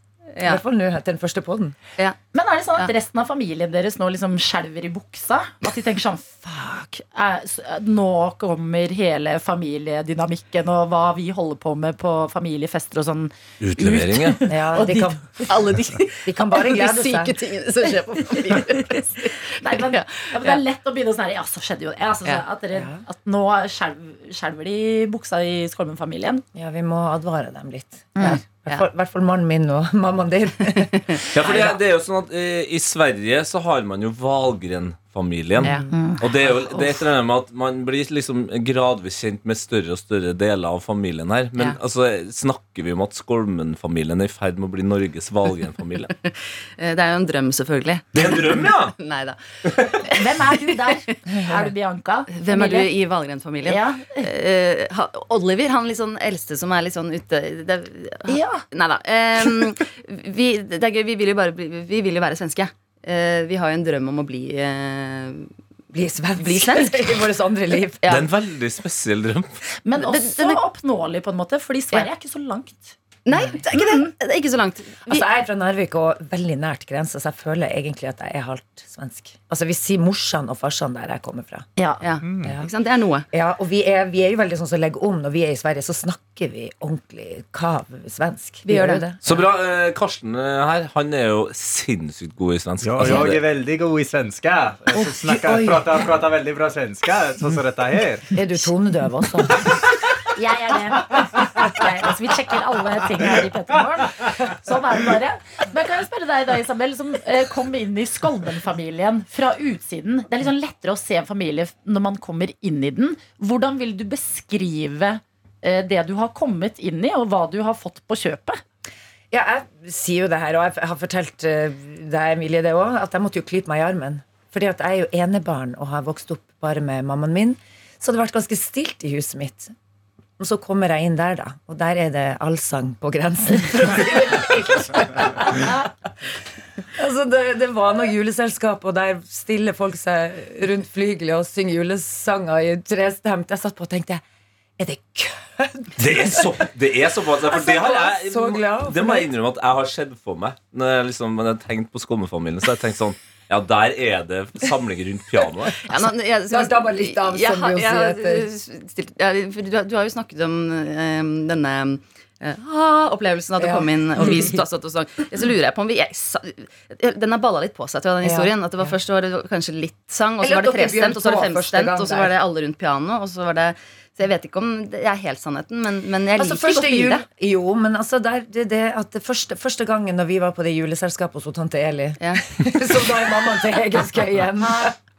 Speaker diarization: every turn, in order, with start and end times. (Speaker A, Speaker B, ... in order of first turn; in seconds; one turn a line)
Speaker A: 0.4-0.6
Speaker B: 0.4-1.7
Speaker C: 2.3-15.2
Speaker D: 13.6-14.4
Speaker B: 14.5-15.5
Speaker A: 15.4-20.6
Speaker B: 16.2-17.4
Speaker C: 19.6-26.4
Speaker B: 22.7-23.0
Speaker B: 26.5-30.9
Speaker C: 28.1-28.4
Speaker A: 28.2-28.9
Speaker A: 30.6-31.8
Speaker D: 31.3-46.1
Speaker A: 35.6-35.9
Speaker C: 35.9-36.9
Speaker A: 46.2-51.1
Speaker D: 48.1-48.9
Speaker C: 50.1-52.9
Speaker A: 52.3-65.5
Speaker C: 53.6-54.2
Speaker C: 58.3-58.6
Speaker B: 65.9-68.0
Speaker A: 66.4-67.2
Speaker A: 68.0-68.3
Speaker D: 68.0-69.5
Speaker C: 69.8-73.0
Speaker A: 70.0-70.6
Speaker A: 73.2-75.3
Speaker B: 73.3-73.6
Speaker C: 73.7-74.1
Speaker B: 75.0-81.7
Speaker C: 81.8-82.0
Speaker A: 82.0-83.2
Speaker E: 82.2-82.5
Speaker B: 82.3-82.7
Speaker B: 83.3-89.2
Speaker A: 88.7-89.0
Speaker D: 89.2-93.4
Speaker E: 92.8-98.3
Speaker B: 94.9-96.0
Speaker B: 98.3-99.6
Speaker C: 100.3-118.6
Speaker B: 119.3-129.7
Speaker B: 130.4-135.9
Speaker B: 137.0-144.2
Speaker B: 144.8-146.6
Speaker D: 146.0-155.8
Speaker B: 147.4-149.3
Speaker A: 155.8-177.2
Speaker B: 156.0-158.5
Speaker B: 163.6-164.6
Speaker B: 168.2-169.0
Speaker B: 170.4-172.3
Speaker B: 176.3-184.9